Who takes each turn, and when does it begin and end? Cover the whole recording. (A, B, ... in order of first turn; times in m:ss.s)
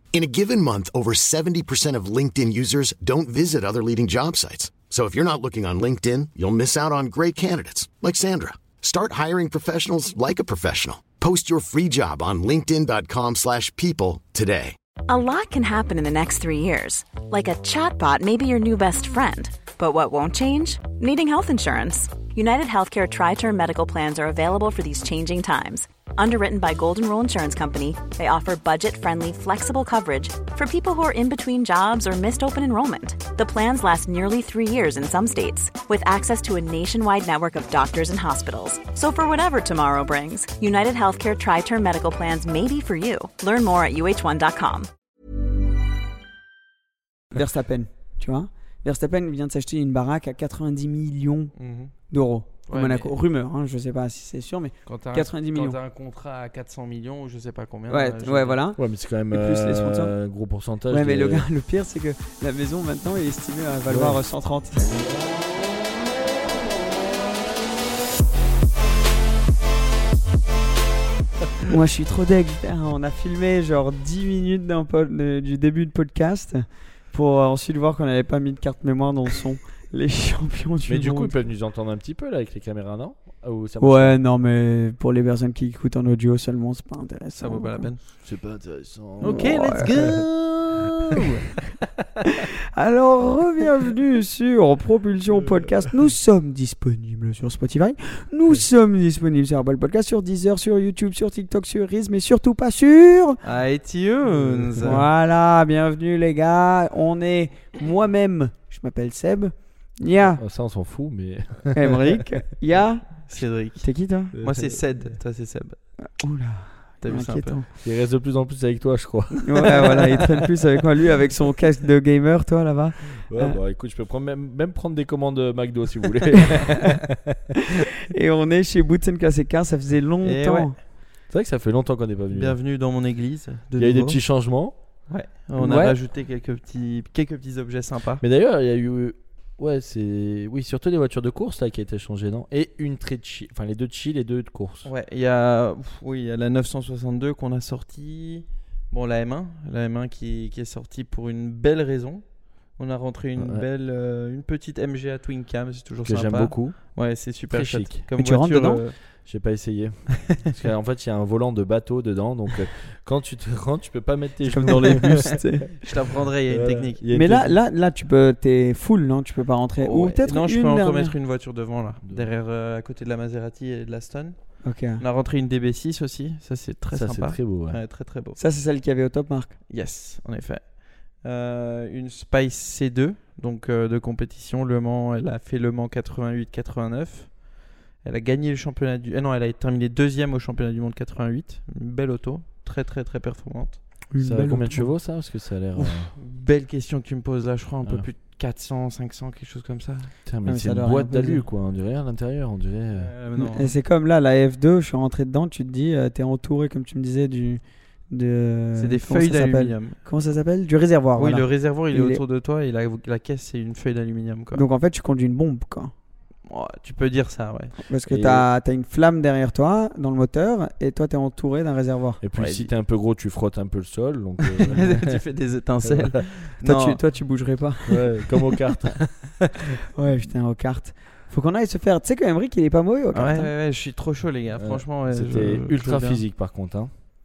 0:00.1-0:14.7 A
0:15.1-0:44.9 B
0:47.3-0:51.5 C
0:51.6-0:51.9 D
0:52.1-0:55.8 C
0:52.7-0:53.1 D
0:54.9-0:58.6 D
0:57.9-0:58.8 C
0:58.8-1:01.5 E
0:59.3-1:00.1 C
1:00.9-1:05.2 C
1:03.9-1:04.2 E
1:11.7-1:21.5 C
1:20.9-1:24.2 E
1:23.8-1:27.9 C
1:27.4-1:28.0 D
1:28.2-1:31.2 E
1:29.2-1:31.5 D
1:29.3-1:29.9 C
1:32.3-1:43.4 C
1:43.4-1:45.0 D
1:44.3-1:44.8 E
1:44.8-1:50.4 C
1:50.2-1:52.2 E
1:51.7-1:53.2 C
1:53.3-1:53.9 D
1:53.8-1:54.3 C
1:54.3-1:55.0 E
1:54.4-1:55.8 D
1:56.2-1:57.7 C
1:57.0-1:57.6 D
1:57.8-2:00.0 E
1:59.4-2:03.6 C
2:03.2-2:07.4 E
2:08.1-2:10.8 C
2:10.2-2:10.7 D
2:11.3-2:12.6 E
2:12.3-2:14.2 D
2:13.8-2:14.8 E
2:15.1-2:18.2 D
2:15.6-2:16.0 C
2:18.2-2:24.9 E
2:24.8-2:39.0 D
2:33.4-2:33.6 E
2:36.0-2:36.9 E
2:37.5-2:38.1 E
2:38.2-2:38.8 C
2:39.3-2:47.5 E
2:44.5-2:45.7 C
2:44.8-2:45.3 D
2:45.8-2:47.0 D
2:47.1-2:51.2 C
2:49.8-2:58.4 D
2:54.6-2:55.0 C
2:56.9-2:57.8 E
2:58.4-2:59.6 C
2:59.7-3:13.8 D
3:14.1-3:14.9 C
3:14.2-3:16.1 E
3:15.8-3:20.1 D
3:20.3-3:23.1 E
3:20.5-3:21.4 C
3:23.0-3:23.7 D
3:23.4-3:32.2 C
3:28.8-3:30.0 D
3:31.2-3:34.6 D
3:34.5-3:35.9 C
3:36.5-3:37.8 D
3:37.8-3:42.2 C
3:38.1-3:38.5 E
3:42.2-3:45.2 E
3:42.4-3:42.7 D
3:44.6-3:47.0 D
3:45.8-3:46.1 E
3:46.6-3:48.0 C
3:47.9-3:49.5 E
3:50.0-3:53.5 C
3:53.1-3:56.2 D
3:54.6-3:56.9 E